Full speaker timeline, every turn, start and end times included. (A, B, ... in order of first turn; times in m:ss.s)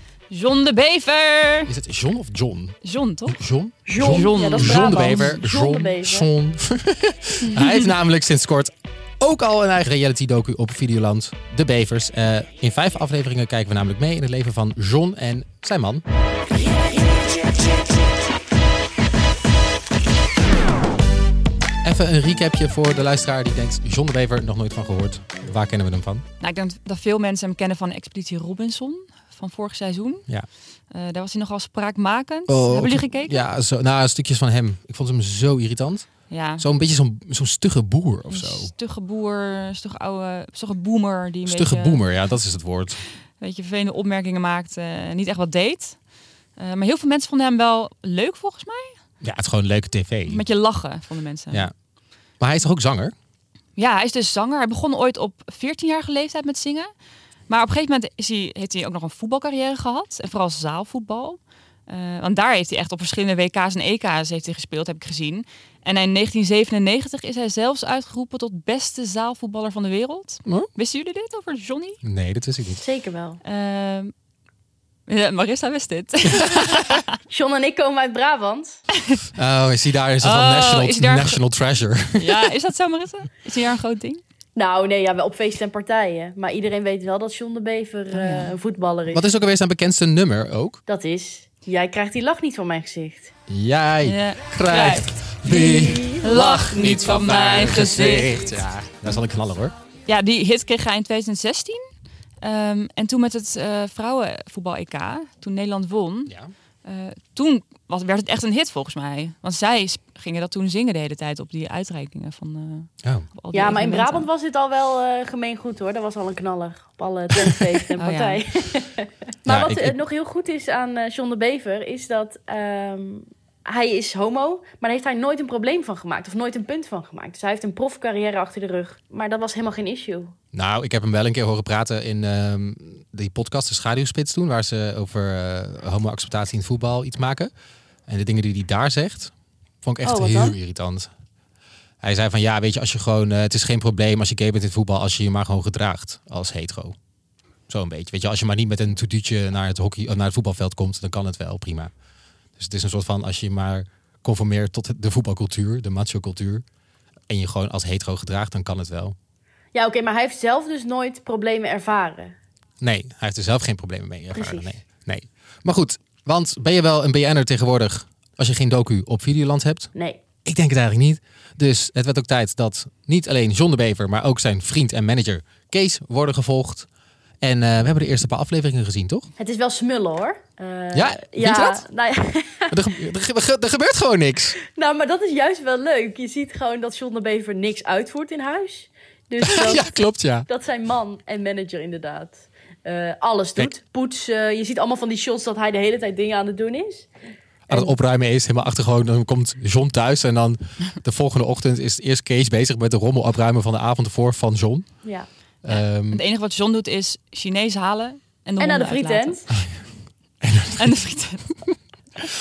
0:00.3-0:01.7 A
0:01.7-0:16.0 B
0:02.8-0:03.4 A
0:03.8-0:06.3 C
0:04.0-0:05.4 A
0:21.8-0:26.2 B
0:26.4-0:33.4 A
0:32.5-0:38.7 B
0:36.3-0:36.6 A
0:38.3-0:42.3 A
0:41.4-0:43.0 B
0:43.4-0:49.0 A
0:49.2-0:50.4 B
0:50.3-0:51.7 A
0:51.5-0:53.1 B
0:53.8-0:56.9 A
0:57.5-1:12.0 A
1:12.0-1:12.8 B
1:12.8-1:13.4 C
1:13.4-1:14.1 A
1:15.1-1:17.1 A
1:17.3-1:18.8 C
1:19.3-1:22.5 B
1:20.2-1:21.4 A
1:22.1-1:24.2 A
1:24.6-1:29.2 C
1:28.1-1:28.5 A
1:29.1-1:30.8 B
1:30.9-1:33.3 C
1:33.5-1:39.7 B
1:34.0-1:35.4 A
1:35.5-1:36.3 C
1:36.2-1:38.4 A
1:40.0-1:41.8 A
1:42.4-1:54.3 A
1:53.0-1:53.3 B
1:53.5-2:10.3 C
1:58.0-1:58.4 A
1:59.5-2:00.0 B
2:10.5-2:17.5 B
2:18.1-2:21.1 B
2:20.0-2:20.6 C
2:22.0-2:27.0 B
2:27.7-2:31.9 B
2:32.6-2:36.6 B
2:37.3-2:39.1 B
2:39.7-2:42.3 C
2:42.8-2:49.9 B
2:44.3-2:44.7 C
2:49.9-2:50.2 C
2:50.4-2:56.9 B
2:57.4-2:59.3 B
2:59.4-3:02.7 C
3:00.9-3:01.8 B
3:02.7-3:04.6 B
3:04.7-3:17.1 C
3:09.4-3:10.5 B
3:17.7-3:26.2 B
3:17.7-3:17.9 C
3:25.7-3:29.7 A
3:28.6-3:29.5 C
3:30.4-3:31.0 B
3:30.7-3:31.6 A